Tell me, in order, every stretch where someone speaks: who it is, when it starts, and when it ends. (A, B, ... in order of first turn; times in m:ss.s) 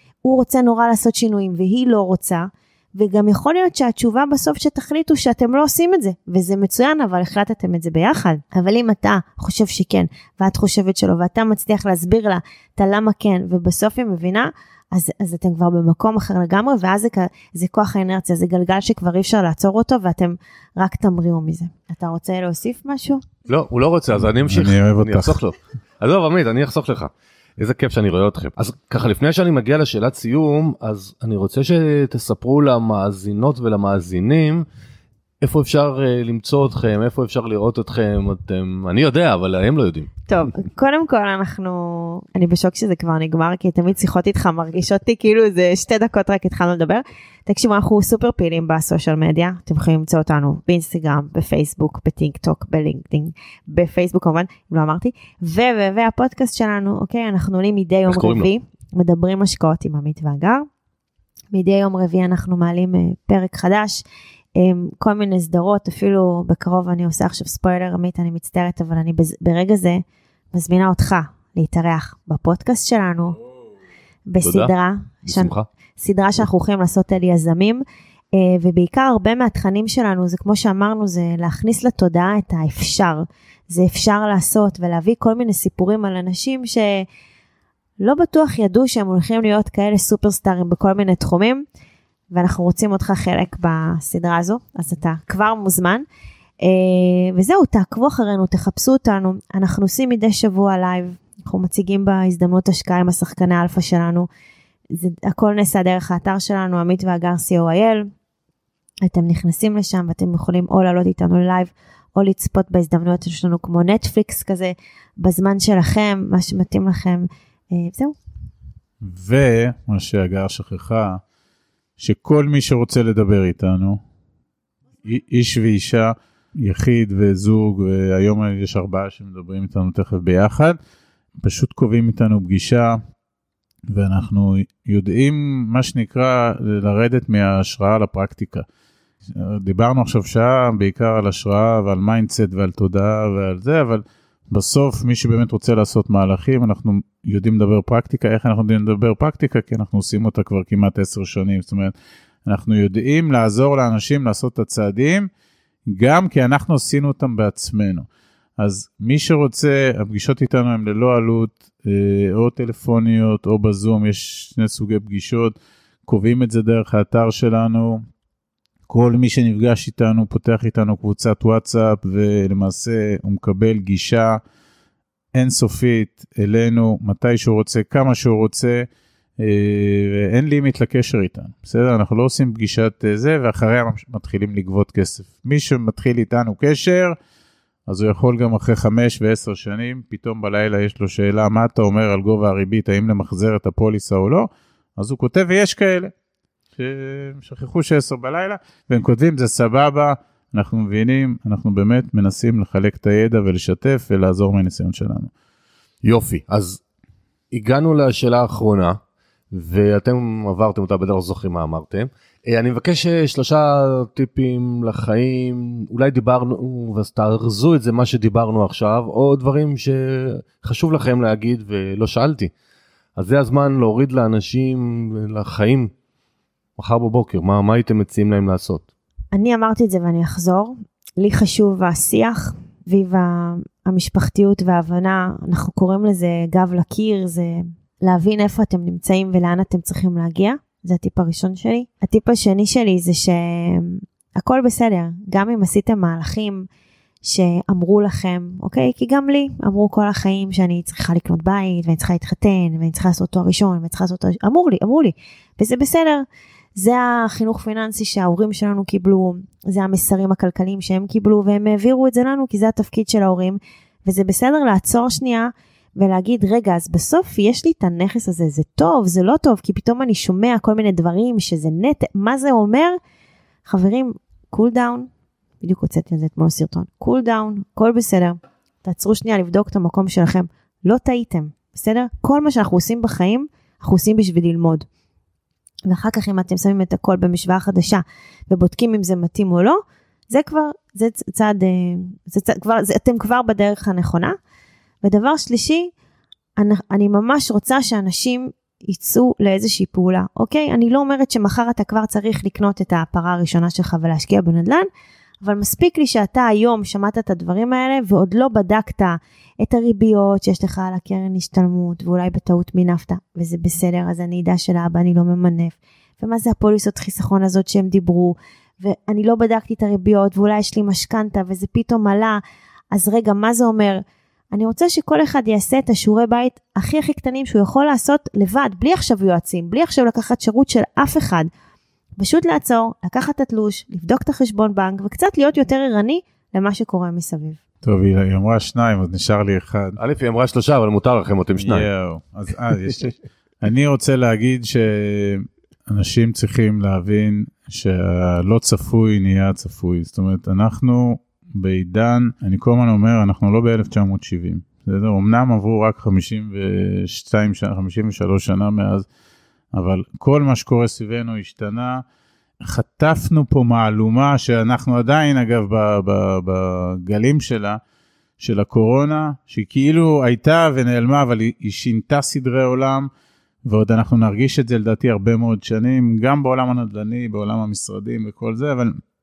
0:00.2-0:23.2 A
0:23.5-0:34.6 B
0:24.4-0:25.4 C
0:35.4-0:40.1 B
0:40.3-1:00.7 A
0:58.1-0:58.5 B
1:01.5-1:04.0 A
1:04.6-1:13.4 A
1:14.3-1:27.0 A
1:14.4-1:14.7 B
1:15.2-1:15.7 B
1:28.0-1:31.6 A
1:32.3-1:36.0 A
1:36.6-1:44.3 A
1:44.9-1:48.1 A
1:49.0-1:58.1 A
1:59.0-2:01.2 C
2:02.0-2:04.0 C
2:05.0-2:10.8 C
2:11.4-2:13.0 C
2:13.9-2:18.6 C
2:19.3-2:31.9 C
2:32.4-2:35.3 C
2:35.9-2:38.1 C
2:38.6-2:48.0 C
2:48.9-2:54.4 C
2:55.3-2:58.9 C
2:59.4-3:07.2 C
3:07.9-3:16.1 C
3:16.8-3:25.3 C
3:26.0-3:26.8 B
3:27.5-3:29.0 B
3:29.5-3:42.5 B
3:43.2-3:45.9 B
3:46.8-3:48.8 B
3:49.3-4:06.7 A
4:07.2-4:33.0 A
4:33.6-4:35.1 A
4:35.6-4:44.9 A
4:45.9-4:54.4 A
4:55.0-4:55.9 A
4:56.6-5:04.9 A
5:05.4-5:22.4 A
5:22.9-5:31.5 A
5:32.2-5:37.6 A
5:37.8-5:40.0 C
5:40.0-5:41.9 B
5:41.6-5:59.1 C
5:59.7-6:02.0 C
6:02.6-6:07.8 C
6:08.4-6:13.1 C
6:13.6-6:19.0 C